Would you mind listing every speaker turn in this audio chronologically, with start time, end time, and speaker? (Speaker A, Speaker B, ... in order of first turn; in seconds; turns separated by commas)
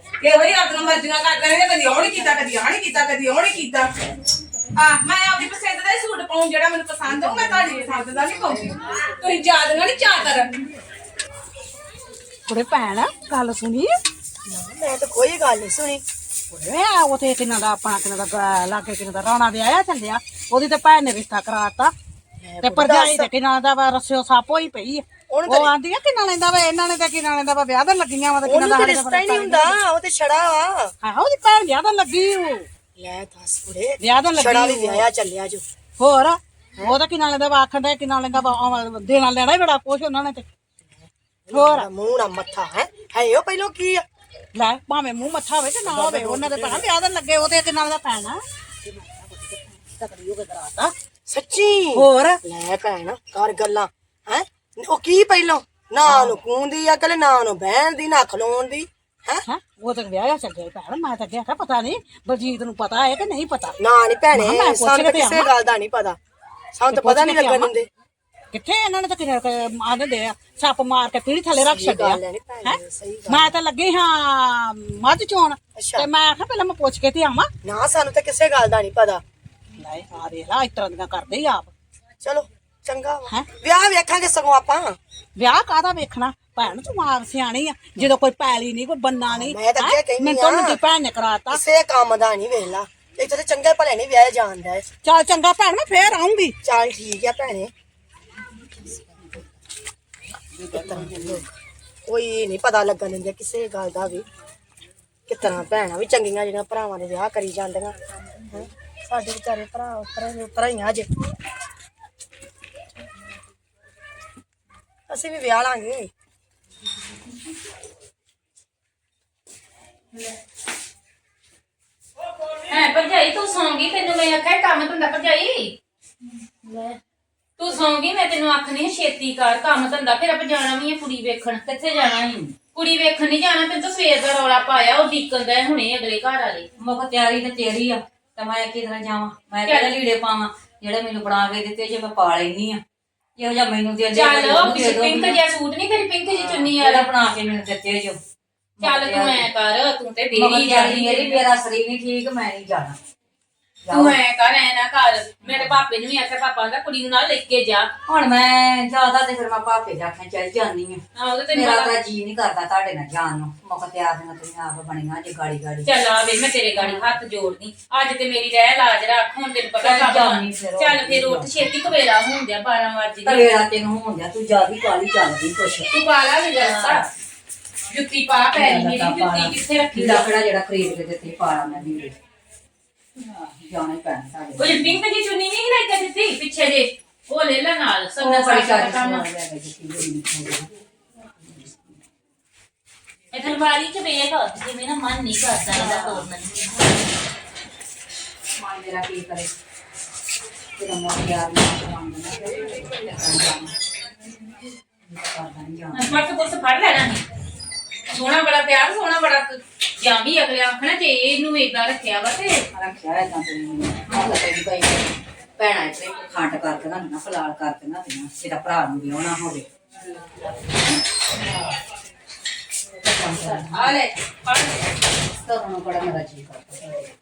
Speaker A: 0.2-3.9, Speaker A: 4.8-10.6, Speaker B: 12.5-13.9, Speaker C: 14.4-16.0, Speaker B: 16.5-21.9, Speaker C: 22.4-23.3, Speaker B: 22.6-29.8, Speaker C: 25.3-25.7, Speaker C: 28.4-30.9, Speaker B: 31.0-32.7, Speaker C: 33.0-35.6, Speaker B: 34.0-35.0, Speaker B: 36.0-40.5, Speaker C: 40.9-44.0, Speaker B: 41.5-41.9, Speaker B: 44.5-50.9, Speaker C: 46.1-46.5, Speaker C: 51.3-59.5, Speaker B: 51.9-52.4, Speaker B: 56.0-56.4, Speaker B: 59.5-63.8, Speaker C: 63.8-66.2, Speaker B: 64.3-65.5, Speaker C: 66.7-67.9, Speaker B: 66.9-67.8, Speaker B: 68.5-77.5, Speaker C: 71.5-73.6, Speaker C: 75.8-76.1, Speaker C: 77.6-79.2, Speaker B: 79.8-81.7, Speaker C: 82.2-85.0, Speaker B: 85.4-91.6, Speaker C: 89.3-90.8, Speaker C: 91.5-94.9, Speaker B: 95.0-96.6, Speaker C: 96.6-97.7, Speaker C: 100.7-101.5, Speaker D: 100.7-101.1, Speaker C: 102.0-104.3, Speaker C: 105.3-108.0, Speaker C: 108.5-111.1, Speaker C: 115.1-116.1, Speaker E: 122.7-125.8, Speaker E: 126.6-127.0, Speaker E: 127.6-131.7, Speaker D: 131.7-132.5, Speaker E: 132.6-136.7, Speaker D: 136.8-142.8, Speaker E: 139.7-139.9, Speaker D: 143.4-145.4, Speaker E: 144.1-147.1, Speaker D: 146.3-148.2, Speaker D: 148.8-149.5, Speaker E: 148.8-151.4, Speaker D: 150.3-153.0, Speaker D: 153.8-154.2, Speaker E: 153.9-157.9, Speaker D: 155.4-155.8, Speaker D: 158.1-165.9, Speaker E: 161.1-161.9, Speaker E: 165.8-173.6, Speaker D: 166.8-167.1, Speaker D: 169.8-171.7, Speaker D: 173.2-175.9, Speaker E: 175.9-177.1, Speaker D: 176.6-177.1, Speaker E: 177.9-180.3, Speaker D: 178.5-182.1, Speaker D: 183.2-185.0, Speaker E: 184.6-189.2, Speaker D: 188.2-190.7, Speaker D: 191.4-191.9, Speaker E: 193.3-196.7, Speaker D: 195.7-196.4, Speaker D: 198.6-199.5, Speaker D: 200.8-203.7, Speaker D: 205.0-206.2, Speaker E: 205.9-207.2, Speaker E: 208.1-212.6, Speaker D: 212.7-219.6, Speaker D: 223.0-223.9, Speaker E: 223.4-224.9, Speaker D: 225.2-227.1